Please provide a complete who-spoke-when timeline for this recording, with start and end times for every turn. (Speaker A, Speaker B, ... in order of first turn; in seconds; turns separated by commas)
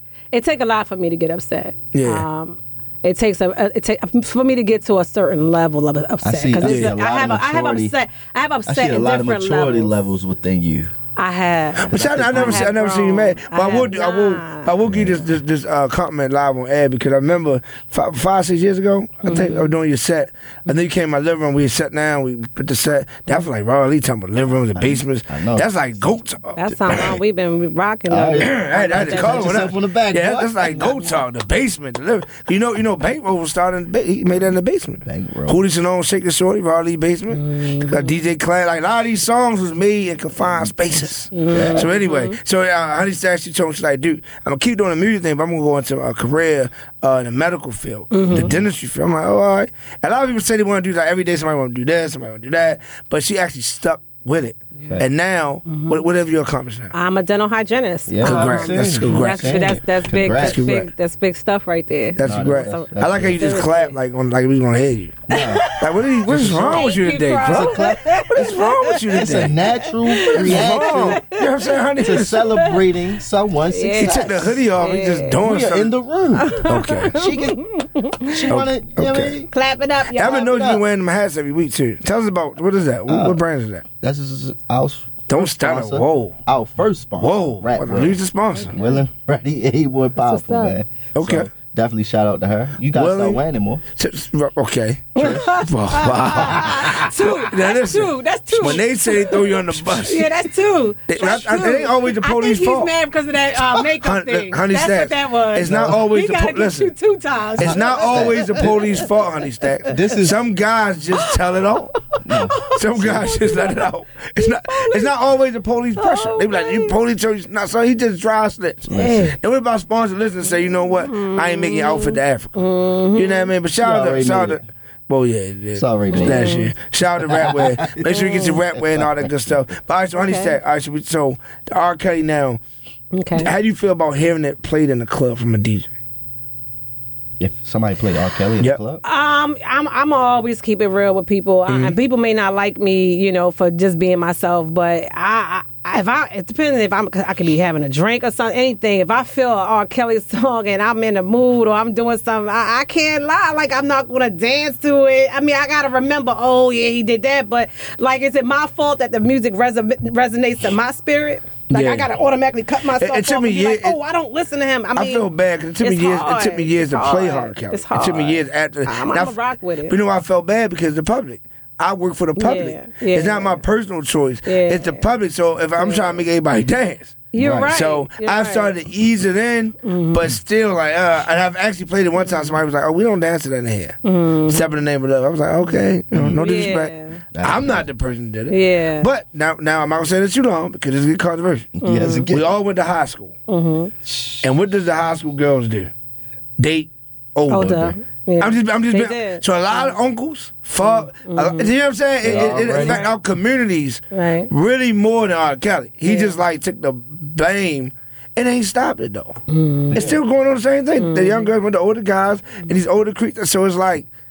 Speaker A: 0.3-9.9, Speaker B: 1.9-2.2, Speaker C: 6.2-7.9, Speaker B: 6.6-6.9, Speaker C: 8.7-10.9, Speaker A: 11.2-14.7, Speaker B: 11.8-27.1, Speaker C: 11.9-12.7, Speaker C: 14.8-15.2, Speaker A: 19.2-19.7, Speaker C: 24.8-26.1, Speaker A: 26.6-29.6, Speaker C: 28.1-31.1, Speaker B: 28.4-56.9, Speaker C: 35.0-35.6, Speaker A: 37.3-38.1, Speaker A: 41.3-42.3, Speaker C: 41.5-41.9, Speaker A: 48.1-48.5, Speaker C: 48.3-48.6, Speaker A: 55.7-56.0, Speaker A: 56.9-63.9, Speaker C: 58.1-60.6, Speaker B: 58.2-59.7, Speaker B: 60.3-60.9, Speaker B: 62.2-69.5, Speaker C: 62.2-63.6, Speaker C: 65.3-65.7, Speaker A: 65.3-69.0, Speaker C: 66.2-66.8, Speaker C: 67.5-71.2, Speaker A: 69.8-71.5, Speaker B: 70.2-72.4, Speaker C: 72.0-74.6, Speaker A: 73.7-75.4, Speaker B: 74.0-75.9, Speaker C: 75.4-77.6, Speaker A: 76.5-78.4, Speaker B: 76.6-77.2, Speaker C: 78.2-79.5, Speaker B: 78.5-79.3, Speaker A: 79.5-80.5, Speaker B: 80.1-83.8, Speaker C: 80.2-80.8, Speaker C: 83.1-83.4, Speaker C: 84.0-88.2, Speaker B: 85.3-86.3, Speaker B: 87.2-88.8, Speaker A: 88.6-89.0, Speaker C: 88.7-93.8, Speaker A: 90.2-90.8, Speaker B: 91.1-91.5, Speaker B: 92.9-93.4, Speaker B: 94.0-100.4, Speaker A: 95.2-108.9, Speaker C: 95.2-95.4, Speaker B: 101.1-102.9, Speaker B: 103.8-106.9, Speaker C: 105.7-106.0, Speaker B: 107.6-111.9, Speaker C: 107.6-109.0, Speaker C: 109.9-110.4, Speaker C: 112.2-113.4, Speaker A: 112.4-113.8, Speaker B: 112.7-122.6, Speaker A: 114.4-115.1, Speaker A: 116.0-116.9, Speaker C: 118.9-119.3, Speaker A: 118.9-119.3, Speaker A: 121.0-123.5, Speaker B: 123.1-132.6, Speaker C: 123.8-124.6, Speaker C: 125.8-126.5, Speaker A: 126.1-126.7, Speaker C: 127.2-128.1, Speaker A: 128.1-128.5, Speaker C: 128.7-129.5, Speaker A: 130.2-130.6, Speaker A: 133.1-133.5, Speaker B: 133.3-135.9, Speaker C: 137.4-139.0, Speaker A: 139.0-165.2, Speaker B: 141.7-141.9, Speaker B: 161.7-162.1, Speaker B: 163.0-164.0, Speaker B: 164.9-169.3, Speaker A: 165.8-169.9, Speaker B: 169.9-191.7, Speaker A: 172.4-173.6, Speaker A: 174.4-175.1, Speaker A: 175.8-176.2, Speaker A: 177.3-178.7, Speaker C: 177.4-177.7, Speaker A: 179.8-180.2, Speaker A: 182.2-182.5, Speaker A: 184.0-184.6, Speaker C: 186.1-186.4, Speaker A: 186.3-187.2, Speaker C: 187.3-187.9, Speaker A: 188.5-189.1, Speaker C: 191.8-192.5, Speaker A: 191.8-192.3, Speaker B: 192.3-193.3, Speaker A: 193.5-194.4, Speaker B: 194.4-195.9, Speaker B: 196.6-209.4, Speaker A: 197.5-199.9, Speaker A: 200.8-201.7, Speaker C: 202.2-203.1, Speaker A: 202.3-203.1, Speaker A: 204.1-204.5, Speaker A: 206.0-206.3, Speaker A: 209.5-210.1, Speaker B: 209.9-214.1, Speaker A: 211.0-211.5